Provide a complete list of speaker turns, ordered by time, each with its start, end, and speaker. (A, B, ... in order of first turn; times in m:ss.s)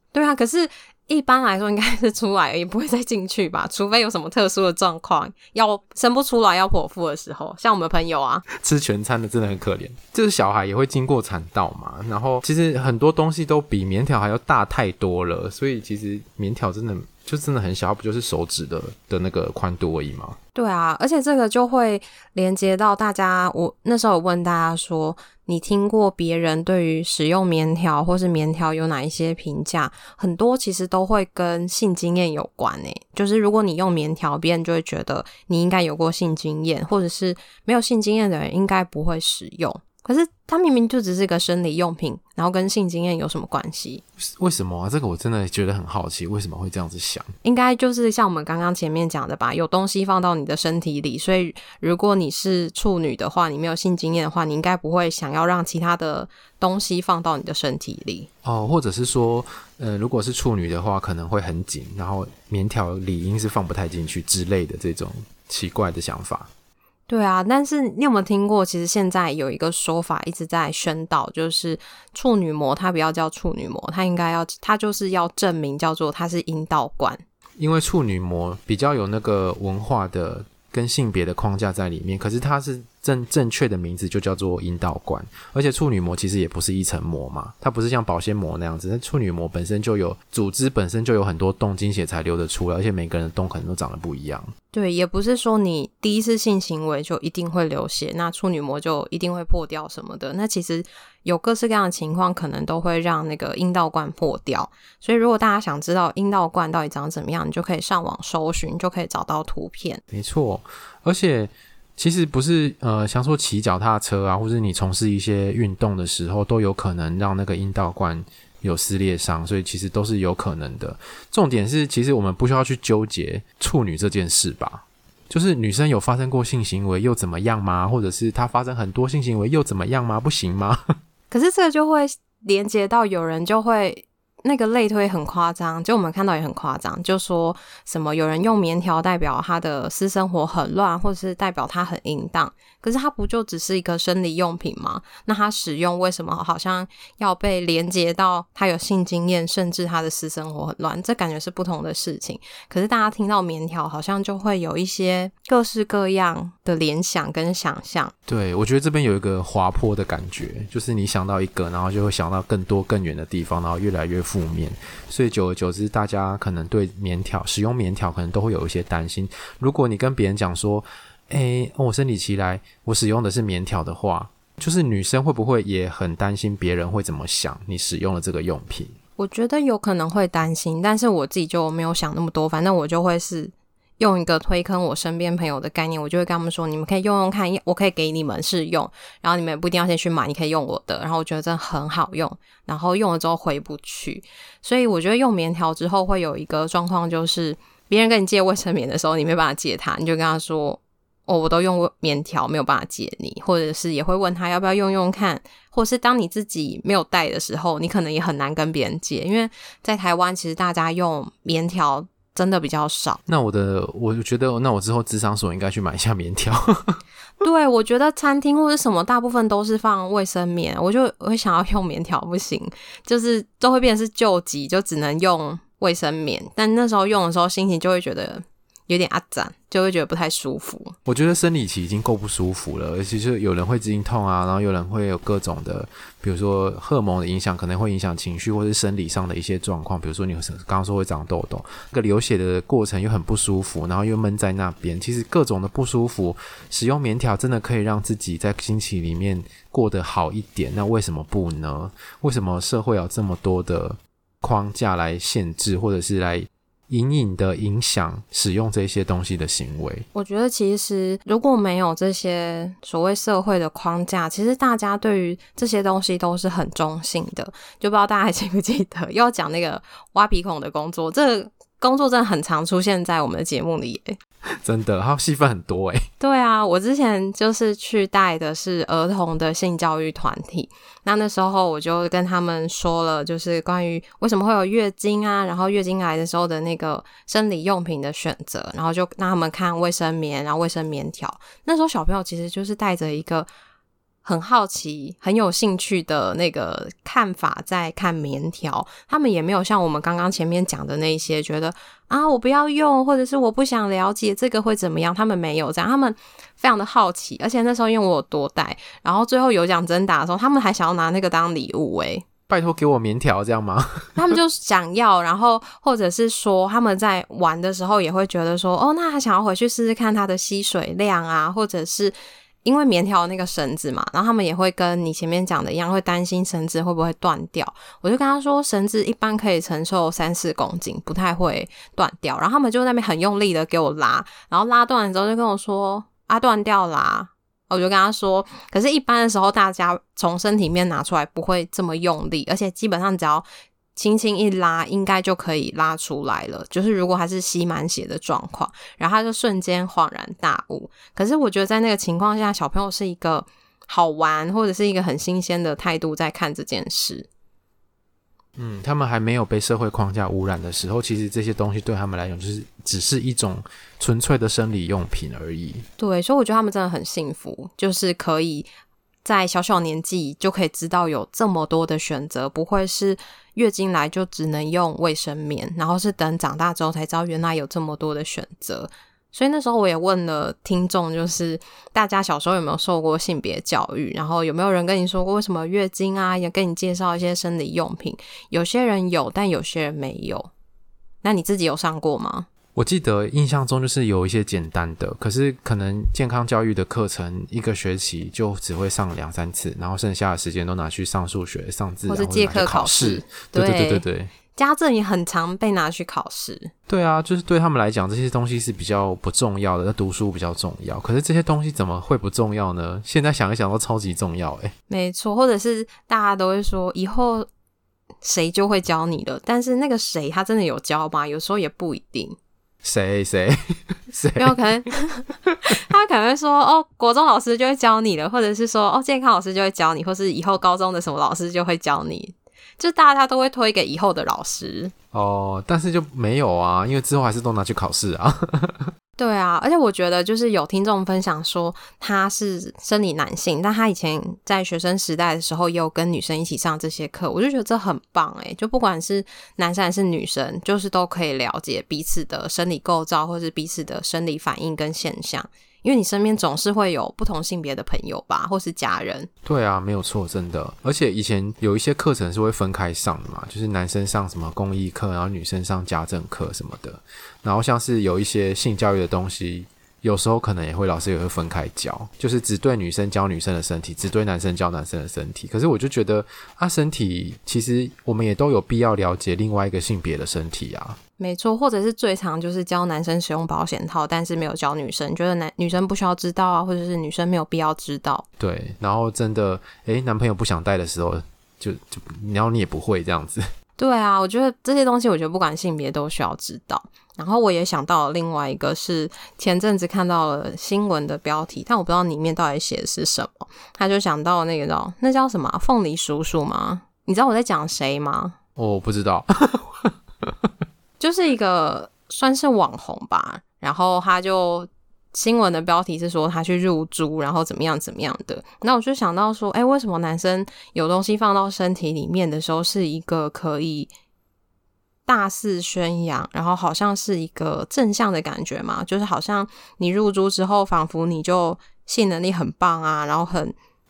0:00.1-0:08.4 A
0:08.5-0:20.4 B
0:20.5-0:44.0 A
0:44.2-0:47.3 B
0:47.4-0:58.3 A
0:58.4-1:06.5 B
1:07.1-1:17.2 A
1:17.6-1:34.5 B
1:34.7-1:50.0 A
1:50.1-2:10.8 B
2:11.3-2:38.1 A
2:38.3-2:59.0 B
2:59.2-3:33.2 A
3:33.2-3:37.0 B
3:37.4-3:50.9 A
3:51.0-4:20.1 B
4:20.1-4:34.2 A
4:34.6-4:36.0 B
4:36.2-4:53.5 A
4:54.2-5:12.2 A
5:12.5-5:14.4 B
5:14.2-5:57.3 A
5:58.6-6:05.8 B
6:06.0-6:08.7 A
6:09.2-6:30.5 A
6:31.2-6:32.5 A
6:32.7-6:44.3 B
6:42.1-6:46.7 A
6:46.9-6:54.7 B
6:54.9-6:57.5 A
6:58.2-7:02.4 A
7:02.8-7:04.6 B
7:04.4-7:14.9 A
7:15.1-7:18.9 B
7:19.2-7:39.3 A
7:39.4-8:01.0 B
8:01.2-8:08.2 A
8:08.4-8:13.5 B
8:13.8-8:28.4 A
8:28.6-8:30.3 B
8:31.0-8:43.9 A
8:45.1-8:53.5 A